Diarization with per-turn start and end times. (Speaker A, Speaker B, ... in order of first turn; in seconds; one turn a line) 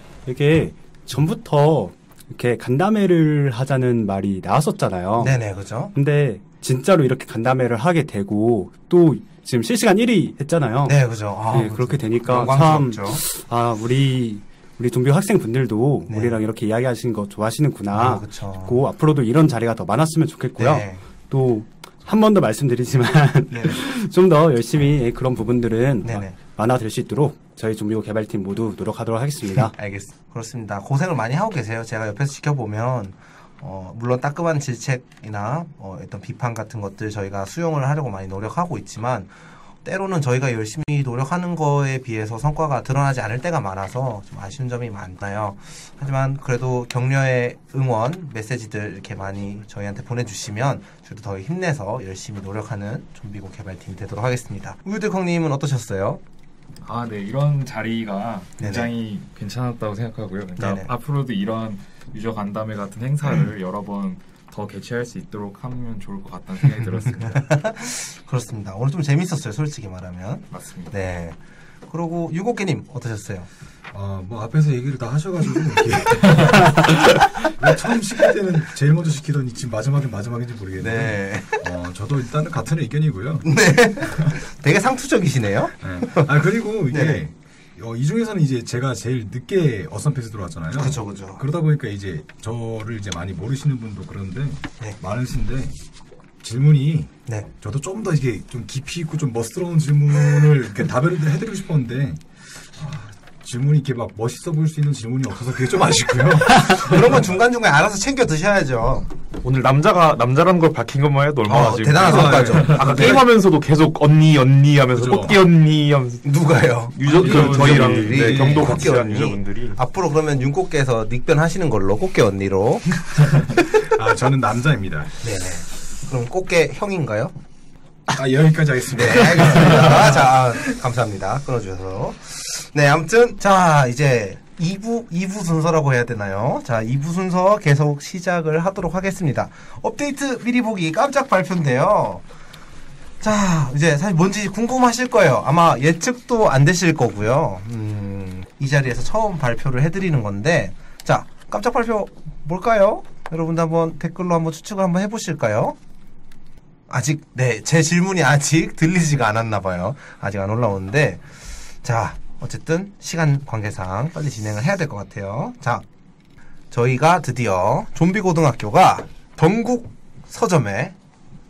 Speaker A: 0.2-5.4
Speaker B: 5.2-5.9
Speaker A: 5.9-29.7
Speaker B: 10.8-13.2
Speaker B: 16.1-16.4
Speaker B: 17.9-18.8
Speaker B: 20.6-21.0
Speaker B: 23.5-23.8
Speaker B: 26.0-26.4
Speaker B: 29.7-39.3
Speaker B: 39.8-56.2
Speaker C: 56.8-67.5
Speaker B: 58.6-58.9
Speaker B: 60.6-60.9
Speaker B: 67.2-73.5
Speaker C: 70.5-70.9
Speaker D: 73.9-84.3
Speaker B: 80.8-81.6
Speaker B: 83.4-86.3
Speaker D: 85.8-95.8
Speaker B: 86.9-87.2
Speaker B: 90.7-91.4
Speaker D: 96.4-107.1
Speaker B: 106.7-109.1
Speaker E: 109.4-116.2
Speaker B: 111.5-113.2
Speaker D: 112.0-113.3
Speaker D: 114.9-115.4
Speaker B: 116.2-123.8
Speaker E: 116.9-119.8
Speaker D: 117.1-118.9
Speaker D: 123.3-125.2
Speaker B: 125.2-127.3
Speaker D: 128.1-130.4
Speaker B: 128.9-142.2
Speaker B: 143.2-155.8
Speaker B: 156.9-161.3
Speaker B: 161.8-165.8
Speaker B: 166.7-170.9